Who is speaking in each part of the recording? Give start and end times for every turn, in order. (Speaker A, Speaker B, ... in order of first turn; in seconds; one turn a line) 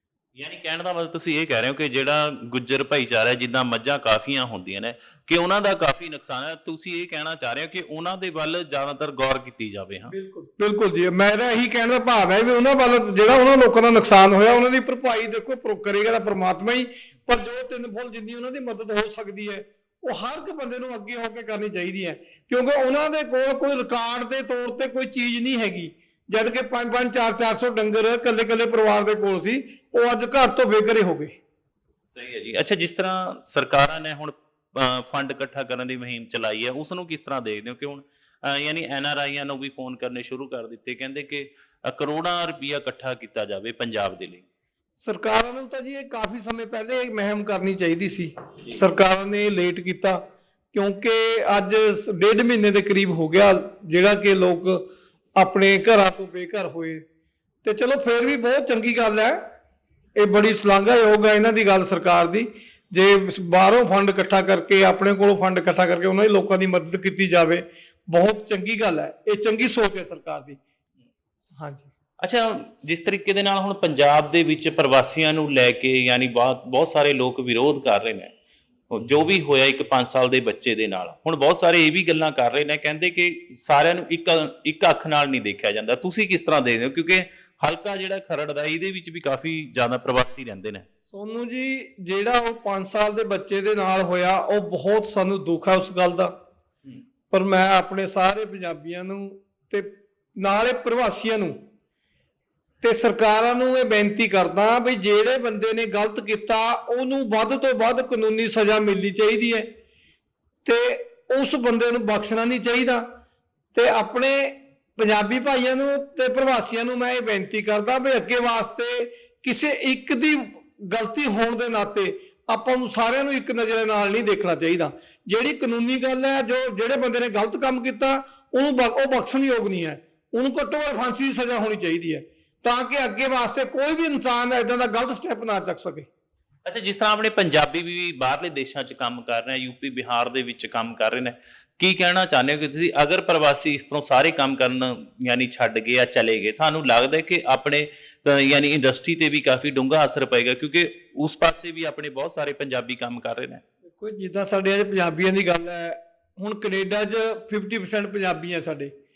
Speaker A: 0.4-10.1
Speaker B: 10.1-31.3
Speaker A: 32.1-44.5
Speaker B: 45.0-50.2
Speaker B: 50.7-54.8
Speaker B: 55.4-57.0
Speaker B: 57.6-59.4
Speaker B: 60.2-70.6
Speaker B: 71.6-71.9
Speaker A: 72.2-78.3
Speaker A: 78.9-90.9
Speaker B: 91.1-96.3
Speaker B: 97.3-101.6
Speaker B: 102.8-109.7
Speaker B: 110.7-113.0
Speaker B: 113.7-136.1
Speaker A: 136.7-153.6
Speaker B: 153.9-158.9